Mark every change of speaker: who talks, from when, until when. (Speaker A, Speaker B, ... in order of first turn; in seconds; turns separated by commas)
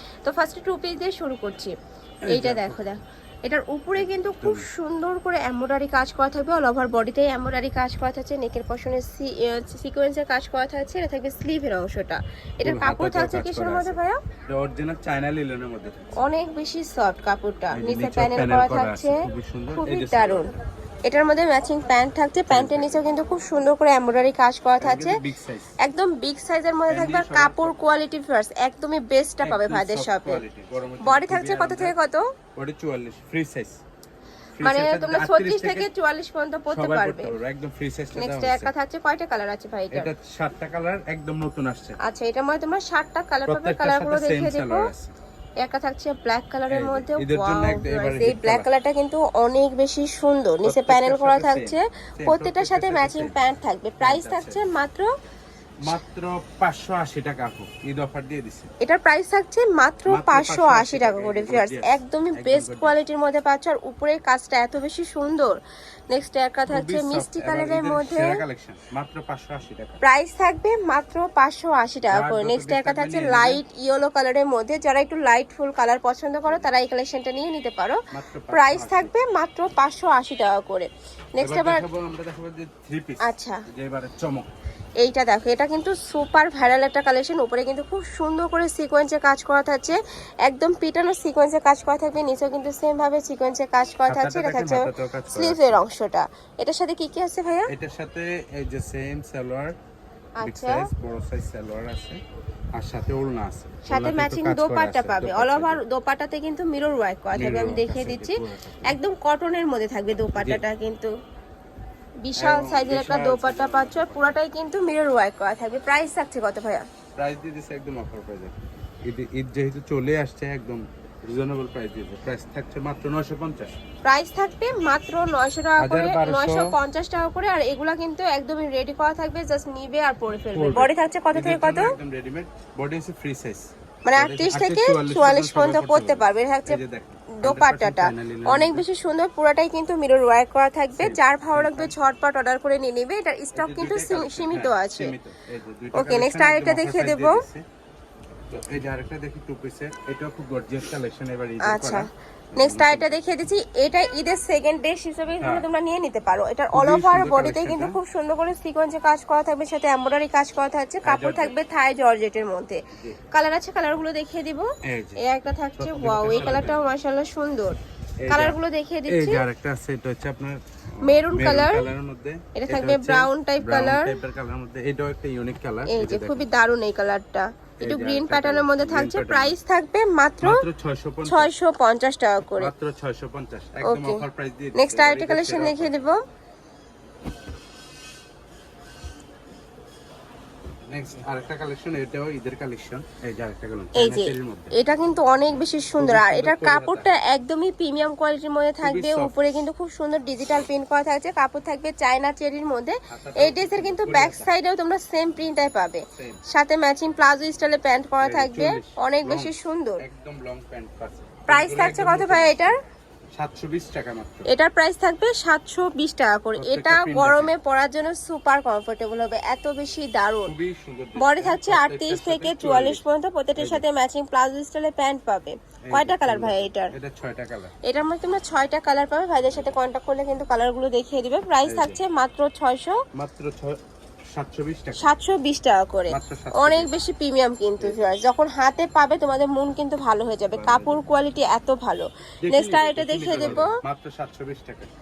Speaker A: 0.2-1.8, Speaker B: 2.2-2.8, Speaker A: 2.3-14.2, Speaker B: 4.0-4.7, Speaker B: 12.6-16.3, Speaker A: 16.1-25.2, Speaker B: 17.7-20.5, Speaker B: 22.5-23.1, Speaker B: 24.8-25.7, Speaker A: 25.8-30.4, Speaker B: 26.9-27.8, Speaker B: 29.4-31.9, Speaker A: 31.0-32.2, Speaker B: 32.6-33.8, Speaker B: 34.6-35.9, Speaker A: 34.6-37.4, Speaker B: 36.7-38.7, Speaker A: 38.2-40.1, Speaker B: 39.9-42.0, Speaker A: 42.0-44.9, Speaker B: 43.5-45.1, Speaker A: 45.6-55.1, Speaker B: 46.7-48.7, Speaker B: 50.6-54.7, Speaker B: 55.8-58.7, Speaker A: 58.8-65.6, Speaker B: 60.1-63.0, Speaker A: 66.1-68.4, Speaker B: 66.7-70.0, Speaker A: 70.0-81.8, Speaker B: 72.1-73.6, Speaker B: 78.1-79.2, Speaker B: 81.4-84.5, Speaker A: 83.2-83.6, Speaker A: 85.0-97.7, Speaker B: 94.1-95.8, Speaker B: 97.7-99.8, Speaker A: 100.4-100.9, Speaker B: 100.4-102.2, Speaker B: 102.8-105.8, Speaker A: 103.8-111.1, Speaker B: 107.3-109.0, Speaker B: 110.3-110.6, Speaker A: 112.2-116.8, Speaker B: 112.4-114.4, Speaker B: 117.2-118.5, Speaker B: 119.1-123.8, Speaker A: 124.0-131.9, Speaker B: 125.8-126.7, Speaker B: 130.5-138.8, Speaker A: 134.1-136.8, Speaker A: 137.4-145.1, Speaker B: 141.0-141.9, Speaker B: 143.6-147.6, Speaker A: 145.9-147.4, Speaker B: 148.5-153.2, Speaker A: 151.6-167.8, Speaker B: 155.4-155.7, Speaker B: 156.7-158.0, Speaker B: 161.1-161.6, Speaker B: 163.0-163.2, Speaker B: 164.8-165.2, Speaker B: 165.8-166.9, Speaker B: 168.2-176.5, Speaker A: 168.3-169.4, Speaker A: 171.0-171.9, Speaker A: 172.6-174.2, Speaker A: 175.9-180.6, Speaker B: 177.8-179.6, Speaker B: 180.4-181.5, Speaker A: 181.3-182.7, Speaker B: 182.5-186.0, Speaker A: 183.8-184.2, Speaker A: 184.8-186.2, Speaker B: 190.9-194.8, Speaker A: 194.0-210.0, Speaker B: 196.0-197.1, Speaker B: 198.8-199.4, Speaker B: 203.1-204.5, Speaker B: 206.1-206.4, Speaker B: 208.2-212.8, Speaker A: 211.5-212.8, Speaker B: 213.4-214.5, Speaker A: 214.5-220.5, Speaker B: 216.6-217.5, Speaker B: 220.5-223.0, Speaker A: 221.2-226.9, Speaker B: 223.6-223.8, Speaker B: 225.9-227.8, Speaker A: 227.8-233.0, Speaker B: 231.7-232.0, Speaker B: 233.1-233.8, Speaker B: 234.3-235.1, Speaker A: 235.0-243.8, Speaker B: 236.1-236.9, Speaker B: 237.8-238.1, Speaker B: 240.5-241.0, Speaker B: 242.4-244.9